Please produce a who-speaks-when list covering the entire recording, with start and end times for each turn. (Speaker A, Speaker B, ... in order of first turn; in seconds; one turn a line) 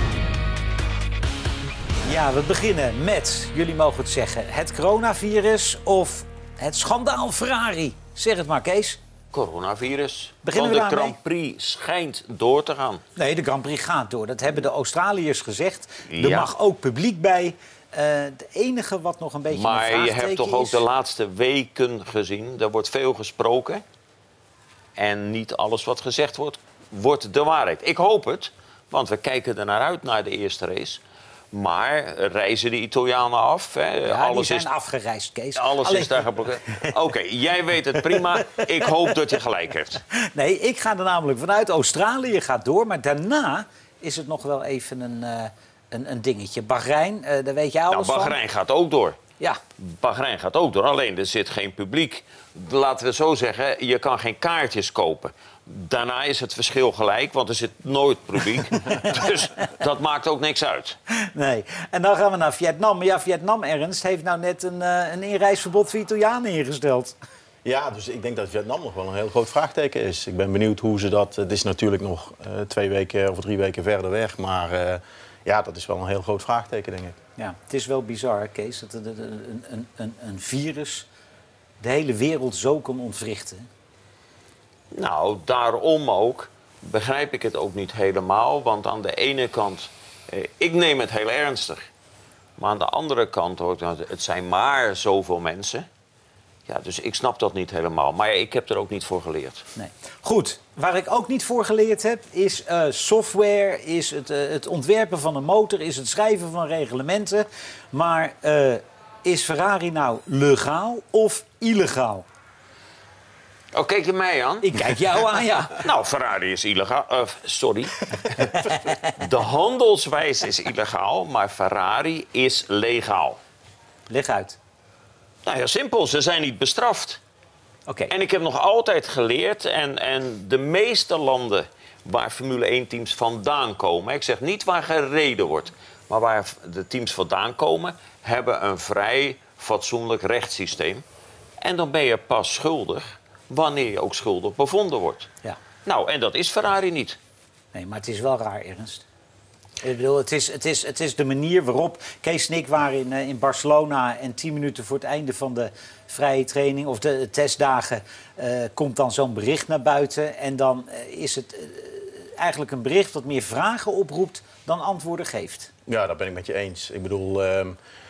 Speaker A: 2.0-9.0
Speaker B: 9.3-13.0
Speaker A: 10.4-11.2
Speaker A: 13.2-20.8
Speaker B: 16.1-16.5
Speaker B: 19.5-23.8
Speaker B: 24.9-31.0
Speaker B: 31.5-34.7
Speaker A: 34.0-36.2
Speaker B: 35.5-40.0
Speaker A: 38.1-38.9
Speaker A: 40.1-48.4
Speaker B: 47.9-49.2
Speaker B: 49.8-61.0
Speaker A: 61.2-67.1
Speaker C: 67.6-77.2
Speaker A: 77.4-81.0
Speaker A: 81.8-83.7
Speaker B: 84.9-91.9
Speaker B: 92.6-95.9
Speaker B: 96.7-99.7
Speaker A: 99.8-112.2
Speaker B: 113.7-123.4
Speaker A: 114.6-115.8
Speaker A: 118.6-119.1
Speaker A: 124.1-124.6
Speaker B: 125.4-127.2
Speaker A: 127.9-128.1
Speaker B: 128.1-141.0
Speaker B: 141.6-145.3
Speaker B: 145.8-147.2
Speaker A: 147.7-149.0
Speaker A: 149.8-165.7
Speaker C: 165.9-167.8